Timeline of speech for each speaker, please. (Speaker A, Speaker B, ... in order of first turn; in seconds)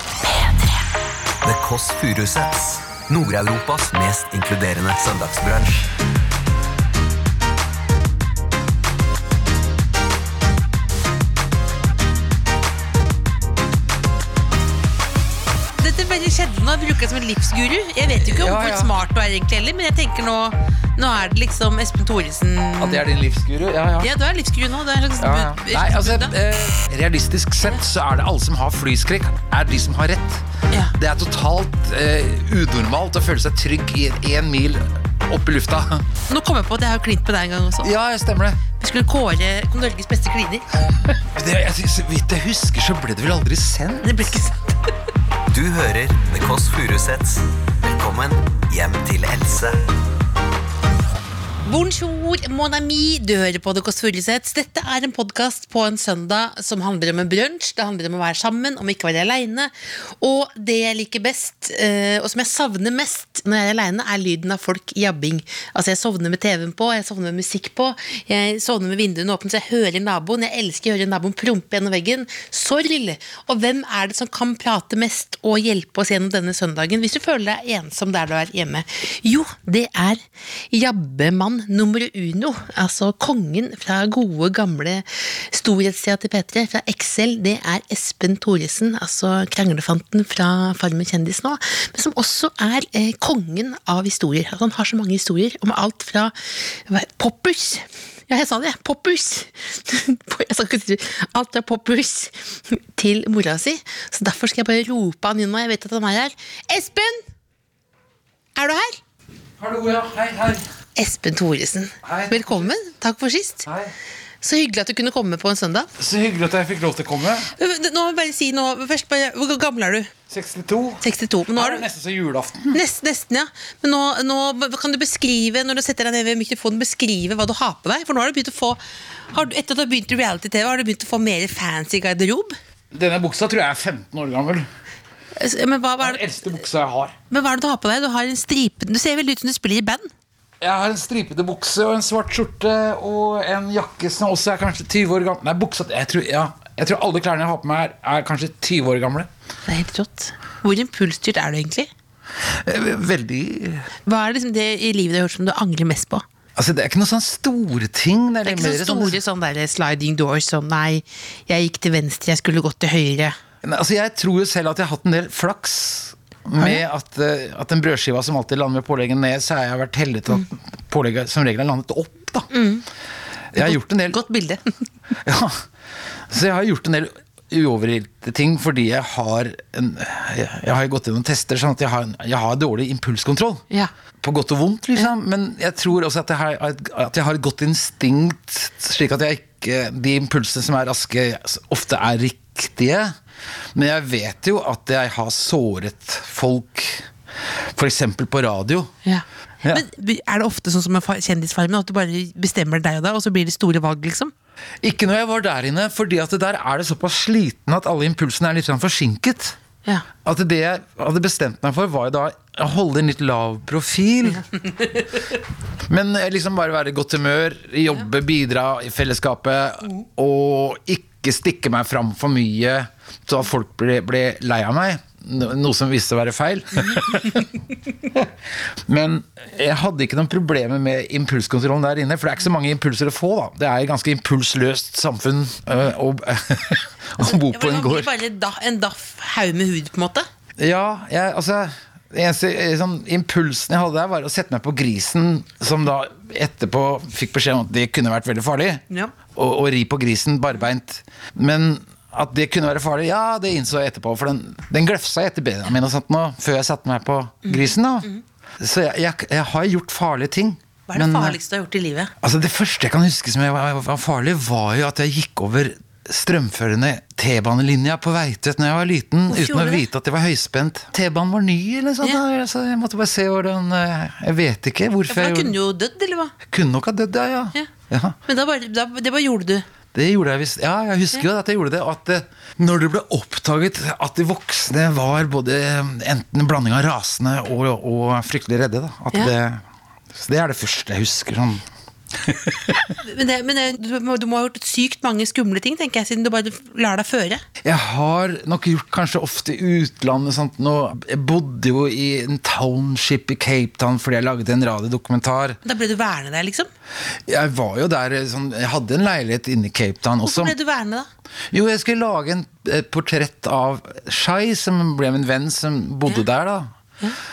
Speaker A: 1.4-5.9, 45.5-49.8
Speaker B: 15.8-23.0, 24.0-26.3, 36.3-37.9, 38.8-40.7, 44.0-44.8, 51.6-107.2, 108.6-109.0, 111.0-113.7, 114.4-115.9, 117.5-120.1, 121.0-121.8, 122.7-128.8, 129.3-132.6, 135.4-136.3, 137.3-140.1, 149.7-151.9, 154.1-156.2, 158.4-163.4, 172.5-172.8, 173.6-174.8, 199.0-204.3, 237.2-240.3, 257.4-258.2, 260.9-262.1, 269.3-269.9, 275.1-276.3, 278.2-279.6, 293.0-297.4, 305.6-306.7, 310.2-311.1
Speaker C: 18.2-18.9, 22.8-24.1, 25.2-36.0, 37.8-38.6, 41.3-44.2, 109.6-110.6, 112.0-112.7, 113.7-113.9, 116.0-117.5, 120.3-121.0, 121.5-122.8, 132.9-134.7, 136.0-137.1, 140.6-149.3, 152.4-153.9, 156.6-159.2, 163.6-172.5, 173.5-174.2, 175.2-175.7, 176.3-183.6, 184.2-193.1, 193.7-197.1, 197.7-198.9, 204.8-209.6, 210.2-214.5, 215.9-227.5, 228.1-238.1, 240.6-258.1, 258.6-261.4, 262.2-275.5, 276.5-278.1, 279.9-289.6, 290.1-293.0, 297.6-305.6, 307.3-310.5, 311.5-316.7